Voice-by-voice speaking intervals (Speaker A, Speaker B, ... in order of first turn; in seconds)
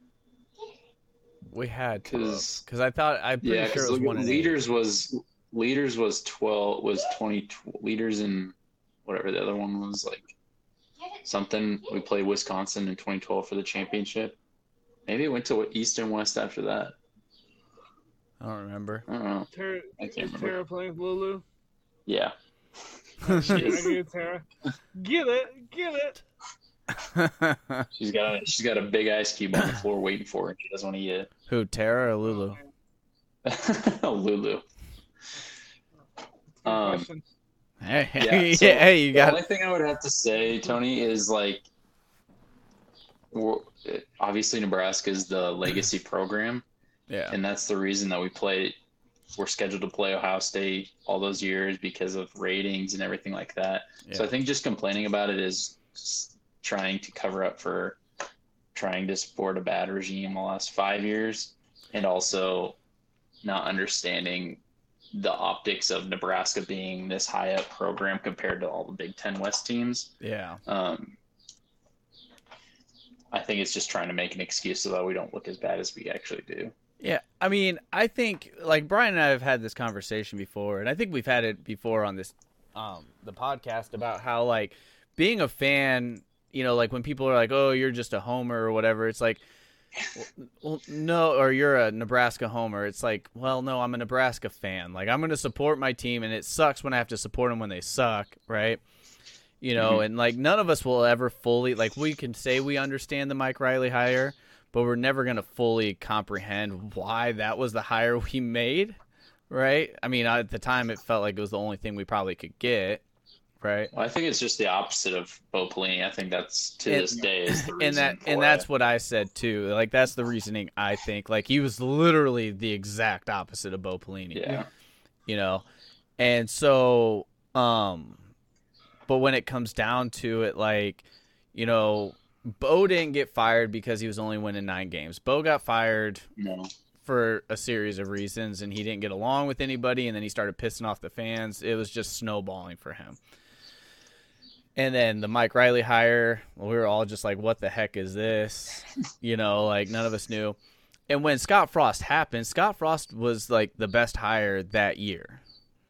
Speaker A: 1.5-4.6, 18.4-19.1, 23.3-23.7, 27.0-27.9, 31.5-32.6, 37.8-39.4, 47.1-47.4, 70.2-70.6, 77.0-89.4, 90.1-98.8, 99.6-109.0, 109.5-113.0, 113.6-113.9, 116.9-124.5, 125.3-125.6, 126.2-128.2, 129.1-136.2, 137.0-143.2, 144.8-150.6, 151.1-155.4
Speaker B: 2.1-2.6, 3.4-8.5, 9.0-10.3, 11.2-14.4, 15.1-16.9, 19.1-20.6, 22.1-22.3, 23.4-24.0, 27.9-31.3, 33.4-34.6, 36.6-37.1, 38.2-41.6, 43.3-46.6, 47.3-48.8, 49.4-58.0, 58.7-62.8, 63.4-64.6, 65.1-70.1, 70.7-71.2, 73.3-76.7, 99.8-100.0, 113.9-118.7, 124.3-124.7, 136.4-136.7
Speaker C: 19.5-21.4, 23.2-26.2, 32.2-32.7, 36.6-37.2